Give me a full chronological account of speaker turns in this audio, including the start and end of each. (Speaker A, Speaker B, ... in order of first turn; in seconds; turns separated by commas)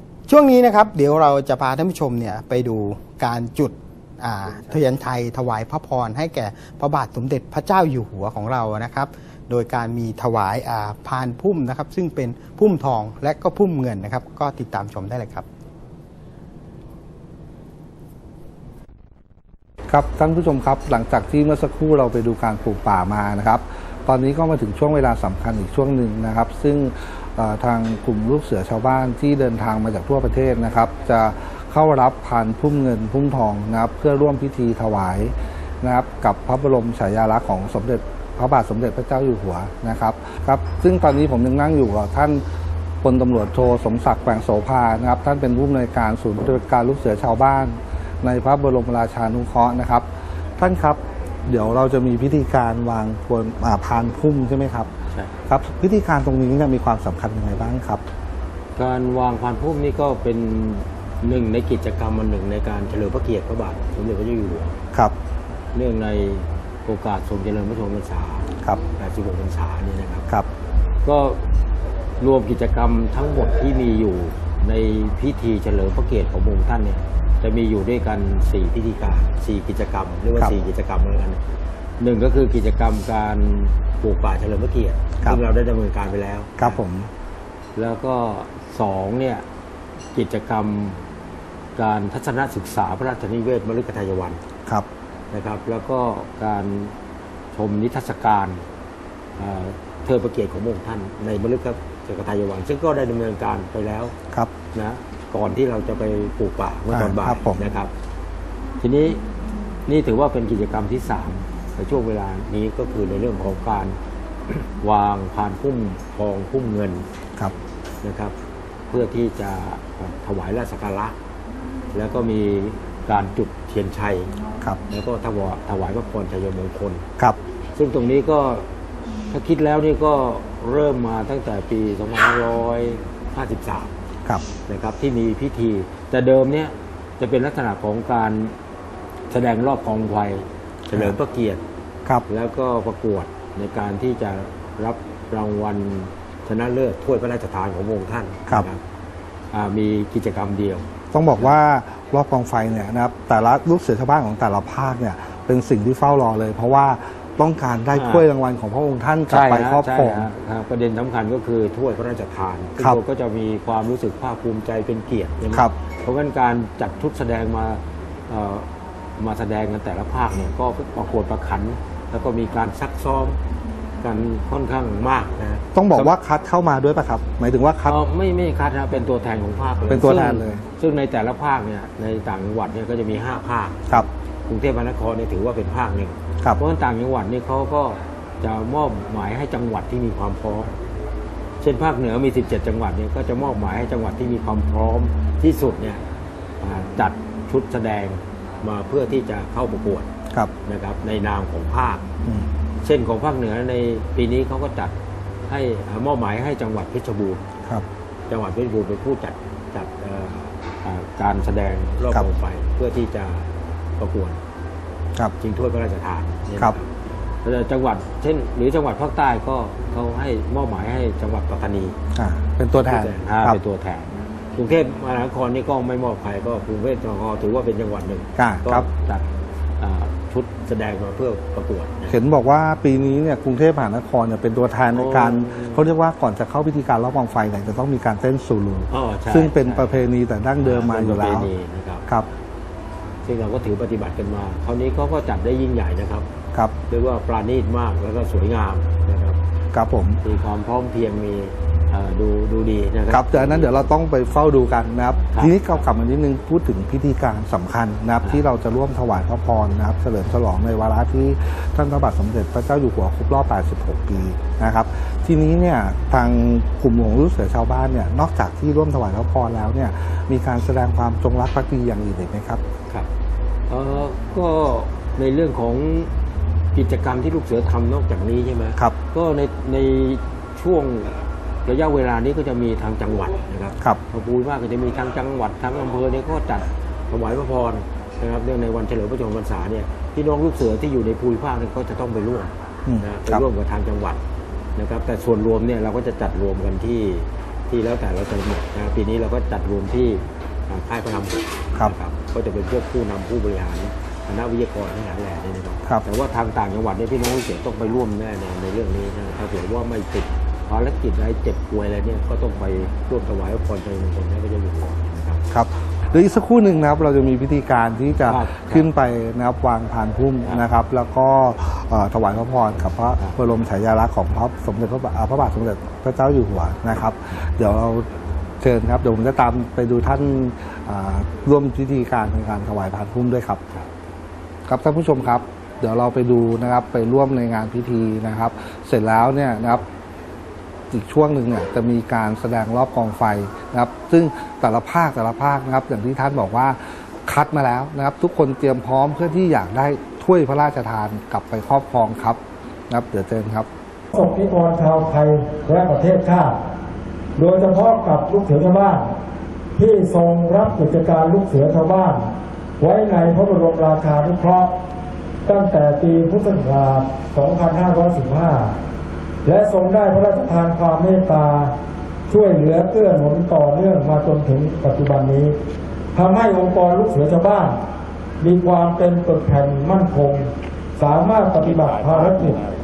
Speaker A: 0.3-15.4, Speaker B: 19.9-42.4, Speaker B: 43.0-50.1, Speaker B: 50.6-54.9, Speaker B: 55.5-58.0, Speaker C: 58.8-64.8, Speaker C: 65.7-70.3, Speaker C: 71.0-71.4, Speaker C: 72.2-81.4, Speaker C: 82.0-86.8, Speaker B: 86.6-87.1, Speaker C: 87.8-89.5, Speaker C: 90.1-91.0, Speaker C: 91.8-94.4, Speaker C: 95.3-97.0, Speaker C: 97.5-98.6, Speaker C: 99.4-104.1, Speaker C: 104.7-107.9, Speaker B: 106.9-107.6, Speaker C: 108.8-109.2, Speaker C: 109.9-114.0, Speaker C: 114.5-117.1, Speaker C: 118.0-118.3, Speaker C: 118.9-121.2, Speaker C: 121.9-124.3, Speaker C: 124.9-127.0, Speaker C: 127.8-128.7, Speaker C: 129.3-133.9, Speaker C: 134.7-138.6, Speaker C: 139.3-141.6, Speaker B: 140.9-141.2, Speaker C: 142.3-148.8, Speaker C: 149.5-151.6, Speaker B: 151.1-160.3, Speaker C: 157.9-158.3, Speaker C: 159.3-168.7, Speaker B: 162.8-163.0, Speaker C: 169.2-173.4, Speaker C: 174.0-176.2, Speaker B: 175.7-178.0, Speaker C: 177.8-190.7, Speaker B: 179.9-180.6, Speaker C: 191.6-196.0, Speaker C: 196.6-200.1, Speaker C: 200.7-202.1, Speaker C: 202.8-204.9, Speaker C: 205.5-207.4, Speaker C: 208.3-214.4, Speaker C: 215.4-216.9, Speaker C: 217.4-222.0, Speaker B: 222.1-223.6, Speaker C: 222.8-229.2, Speaker B: 228.4-228.9, Speaker C: 229.8-232.2, Speaker B: 232.1-241.5, Speaker C: 234.9-235.8, Speaker C: 238.9-240.0, Speaker C: 240.6-242.0, Speaker C: 243.2-246.3, Speaker C: 246.9-249.4, Speaker B: 249.7-250.2, Speaker C: 250.2-253.9, Speaker B: 253.1-272.6, Speaker C: 255.3-255.8, Speaker C: 273.7-276.1, Speaker C: 276.7-281.1, Speaker C: 281.6-294.2, Speaker B: 292.9-293.4, Speaker C: 294.8-315.4, Speaker B: 315.5-328.1, Speaker C: 318.3-318.9, Speaker C: 323.1-323.4, Speaker B: 328.6-333.6, Speaker B: 334.7-339.9, Speaker B: 340.9-353.7, Speaker D: 354.1-356.6, Speaker D: 357.4-359.1, Speaker D: 359.8-362.3, Speaker D: 362.8-364.7, Speaker D: 365.4-368.7, Speaker D: 369.4-371.7, Speaker D: 372.3-375.6, Speaker D: 376.1-377.8, Speaker D: 378.4-382.6